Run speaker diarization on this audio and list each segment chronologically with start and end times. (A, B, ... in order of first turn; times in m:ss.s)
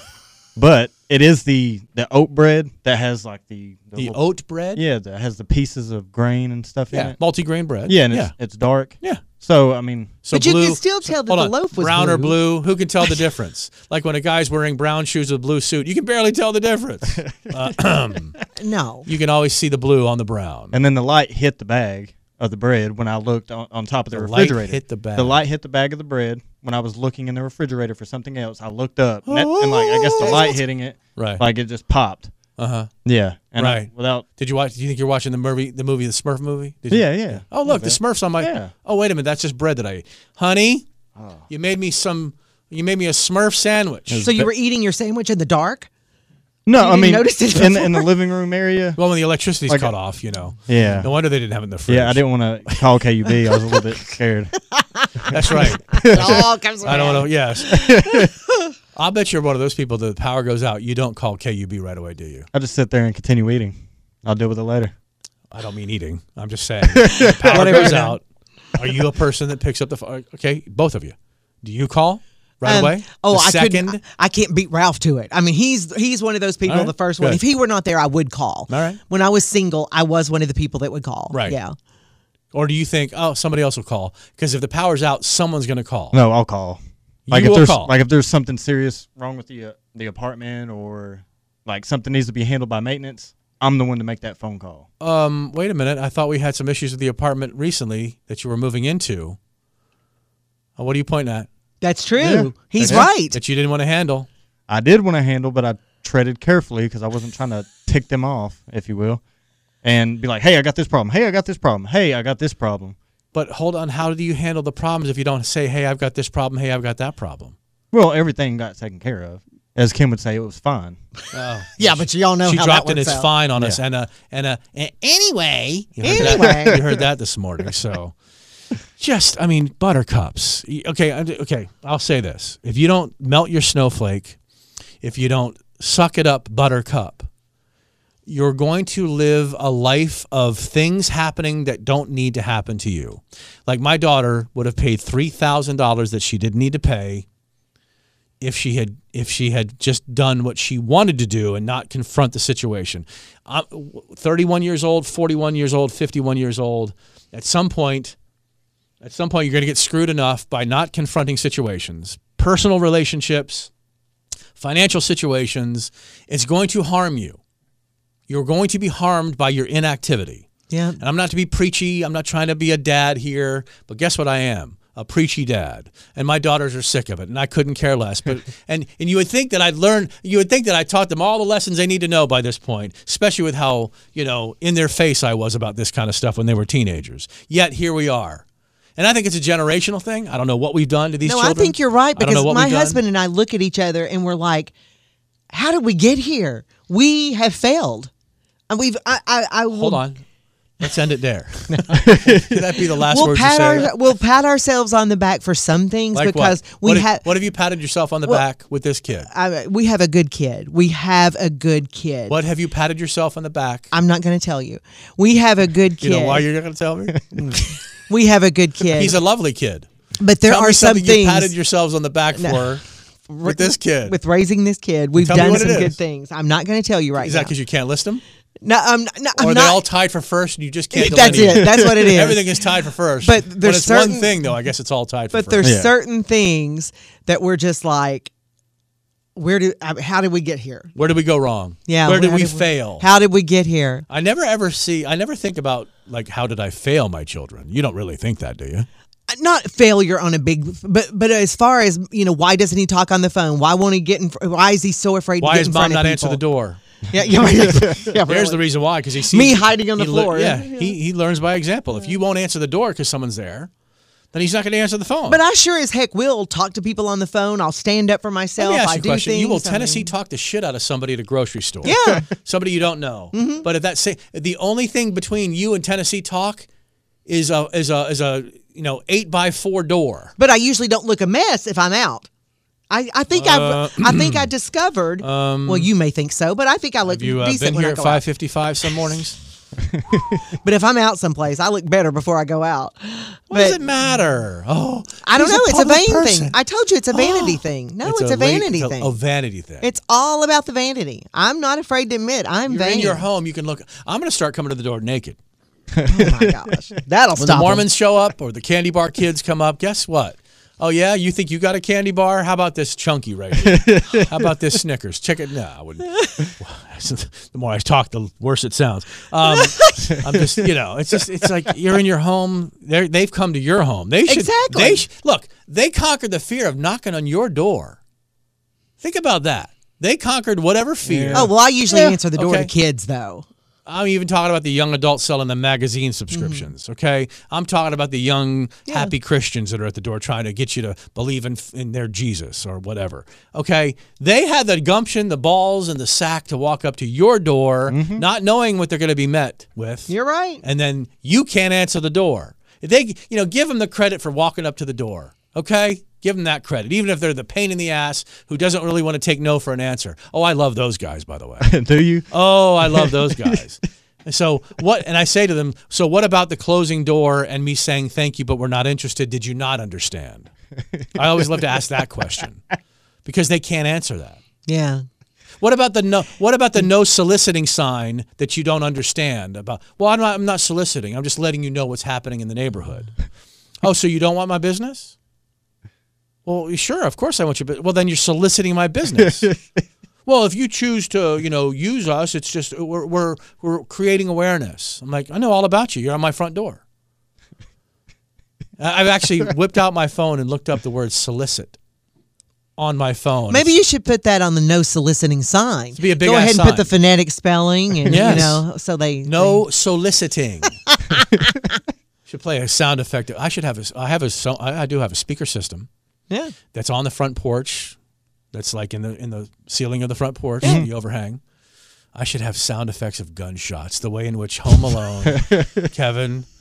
0:00.6-0:04.2 A
0:04.0-0:04.8 B
0:04.7-0:07.2 A
0:06.9-0:08.3 B
0:07.8-0:10.2 A
0:10.2-0:18.4 B
0:10.3-0:12.3 C
0:17.2-0:17.7 A
0:18.6-0:19.0 C
0:19.1-0:20.8 B
0:20.7-0:32.3 A
0:24.1-0:25.4 B
0:29.3-0:30.5 B
0:31.2-0:31.4 B
0:32.6-0:32.9 B
0:33.0-0:34.2 A
0:33.6-0:40.9 B
0:36.9-0:38.7 A
0:41.2-0:41.4 A
0:41.5-0:44.3 B
0:44.1-0:44.5 A
0:44.2-0:45.9 C
0:46.7-0:49.0 A
0:46.8-0:48.1 C
0:49.0-0:52.2 B
0:49.7-0:49.9 A
0:50.7-0:51.1 A
0:51.9-0:54.6 A
0:54.7-0:58.7 C
0:55.3-0:57.8 B
0:55.5-0:56.4 A
0:57.7-0:58.3 A
0:59.0-1:02.5 B
1:02.5-1:04.9 A
1:05.5-1:08.2 B
1:07.0-1:08.0 A
1:07.2-1:08.2 C
1:08.8-1:14.0 B
1:12.6-1:21.8 C
1:16.7-1:17.4 B
1:18.7-1:19.0 B
1:21.3-1:21.6 B
1:22.5-1:26.2 B
1:26.1-1:34.9 A
1:27.3-1:27.9 B
1:35.0-1:39.4 B
1:40.8-1:41.5 B
1:41.8-1:43.4 C
1:42.2-1:43.1 A
1:42.8-1:44.3 B
1:44.7-1:49.2 A
1:49.8-1:53.0 A
1:53.3-1:57.6 B
1:57.9-2:01.0 A
2:01.3-2:08.2 B
2:01.8-2:03.3 C
2:06.0-2:06.8 C
2:06.1-2:06.8 A
2:09.0-2:14.4 B
2:15.0-2:17.3 B
2:18.3-2:27.3 B
2:28.4-2:38.2 B
2:39.0-2:43.7 B
2:44.6-2:47.4 B
2:48.3-2:50.5 B
2:50.7-2:51.0 C
2:51.0-3:08.4 B
3:09.0-3:13.0 B
3:11.2-3:14.7 C
3:15.5-3:18.1 C
3:18.7-3:20.0 C
3:19.7-3:20.2 B
3:20.8-3:23.9 B
3:22.0-3:22.6 A
3:23.1-3:27.3 C
3:26.1-3:29.3 B
3:29.3-3:32.4 C
3:32.3-3:33.9 B
3:33.9-3:36.4 C
3:36.0-3:37.2 B
3:37.3-3:39.2 C
3:38.9-3:39.9 B
3:40.2-3:41.5 C
3:40.4-3:42.8 B
3:42.4-3:42.6 C
3:43.3-3:47.5 C
3:43.4-3:44.2 B
3:45.2-3:46.0 B
3:47.2-3:48.2 B
3:48.6-3:49.8 C
3:49.4-3:55.7 B
3:50.9-3:52.6 C
3:51.4-3:52.1 A
3:53.2-3:54.5 C
3:55.3-3:58.3 C
3:55.6-3:55.9 A
3:59.4-4:00.9 C
4:01.0-4:03.1 B
4:01.9-4:04.1 C
4:04.1-4:08.9 B
4:09.3-4:16.4 C
4:15.4-4:16.8 B
4:17.1-4:18.6 C
4:18.3-4:23.7 B
4:19.3-4:21.0 C
4:24.3-4:25.4 B
4:25.3-4:30.1 C
4:28.6-4:36.7 B
4:31.8-4:32.2 C
4:33.3-4:33.6 C
4:37.3-4:40.3 B
4:40.4-4:42.3 C
4:42.9-4:48.2 C
4:43.3-4:44.5 B
4:45.2-4:45.9 B
4:47.1-4:49.4 B
4:49.8-4:50.4 A
4:50.6-4:53.8 C
4:53.5-4:56.6 B
4:55.2-4:59.2 C
4:57.1-4:59.9 B
4:59.8-5:03.2 C
5:02.7-5:05.4 B
5:05.9-5:06.7 A
5:06.1-5:07.9 C
5:07.4-5:28.0 B
5:13.6-5:14.3 A
5:19.5-5:20.1 C
5:20.3-5:20.6 A
5:24.3-5:25.0 C
5:29.0-5:31.5 B
5:31.0-5:32.2 A
5:31.3-5:33.5 C
5:32.4-5:32.7 B
5:33.9-6:01.8 B
5:36.3-5:36.7 C
5:38.9-5:39.1 C
5:47.9-5:48.3 A
5:50.1-5:50.6 C
6:01.6-6:03.6 A
6:02.3-6:10.5 B
6:11.0-6:11.7 A
6:11.2-6:12.6 B
6:13.2-6:14.4 B
6:14.7-6:15.0 C
6:15.6-6:23.1 B
6:23.8-6:25.2 B
6:26.5-6:29.5 B
6:29.2-6:29.8 A
6:30.3-6:36.8 B
6:38.8-6:41.8 B
6:42.8-6:43.7 B
6:43.5-6:49.6 C
6:46.0-6:46.9 B
6:48.1-6:48.5 A
6:48.1-6:48.6 B
6:49.2-6:50.8 B
6:50.9-6:51.6 C
6:52.3-6:55.9 B
6:56.3-6:56.6 C
6:56.7-6:58.0 B
6:58.5-7:01.4 B
7:00.6-7:00.9 A
7:02.2-7:06.5 B
7:05.3-7:05.9 A